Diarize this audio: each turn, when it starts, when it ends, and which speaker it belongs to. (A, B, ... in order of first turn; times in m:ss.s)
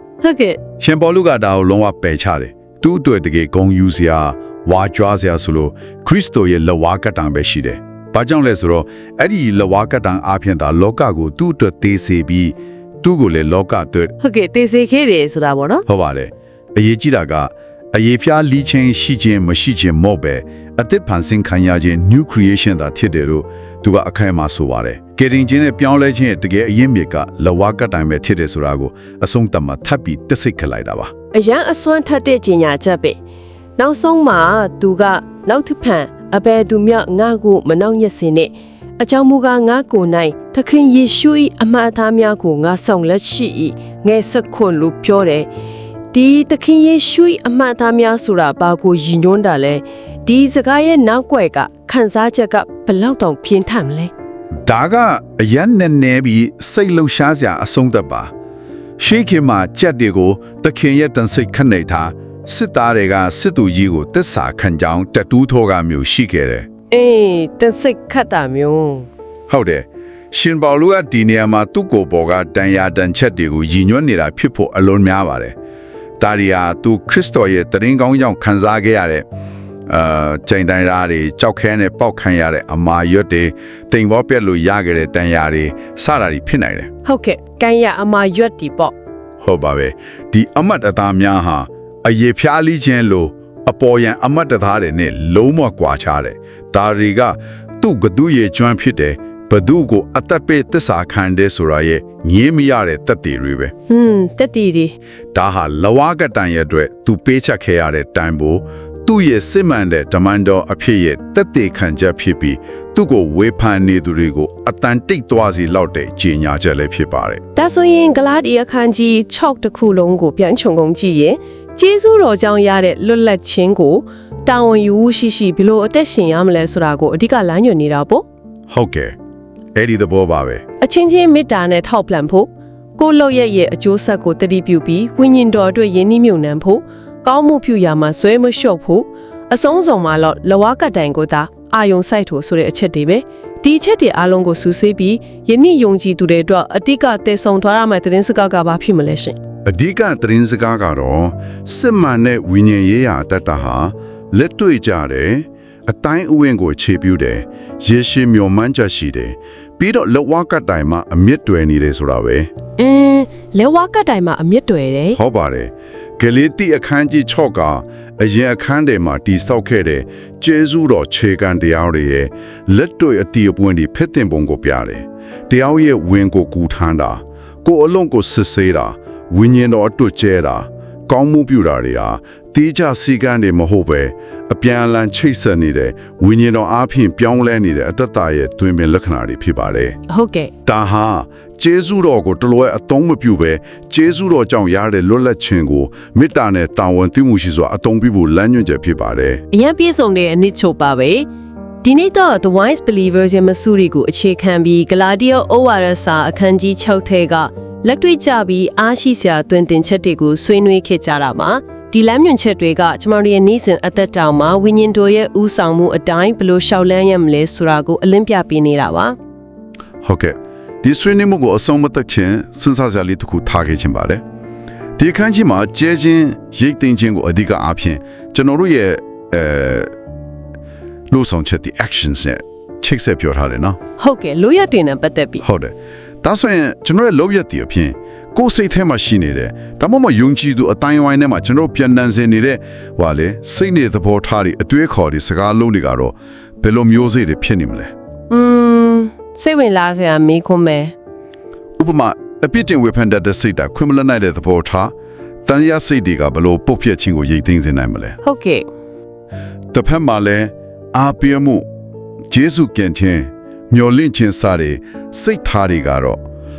0:00.2-0:00.6 A
0:00.8-0:14.1 B
0:14.2-0:15.8 A
0:15.9-0:31.1 B
0:31.3-0:33.2 A
0:33.8-0:45.5 A
0:46.1-0:54.1 A
0:54.6-0:58.3 B
0:59.0-1:06.7 B
1:06.9-1:09.1 A
1:09.5-1:15.5 B
1:16.2-1:19.2 B
1:19.9-1:26.9 B
1:27.0-1:28.9 A
1:29.4-1:43.7 B
1:43.9-1:44.9 A
1:45.3-1:57.4 B
1:57.5-2:08.2 A
2:08.7-2:09.1 B
2:09.8-2:10.6 B
2:10.8-2:29.4 A
2:29.6-2:42.5 B
2:42.8-2:45.2 A
2:45.1-3:10.0 B
3:10.1-3:10.5 A
3:10.6-3:19.4 B
3:19.5-3:21.3 A
3:21.8-3:39.2 A
3:40.0-3:44.2 B
3:45.0-3:49.9 B
3:51.1-3:53.8 B
3:54.0-3:55.4 A
3:55.4-4:07.9 B
4:08.3-4:10.9 A
4:11.8-4:14.9 B
4:15.4-4:18.2 B
4:18.2-4:18.6 A
4:19.7-4:21.6 B
4:22.3-4:26.2 B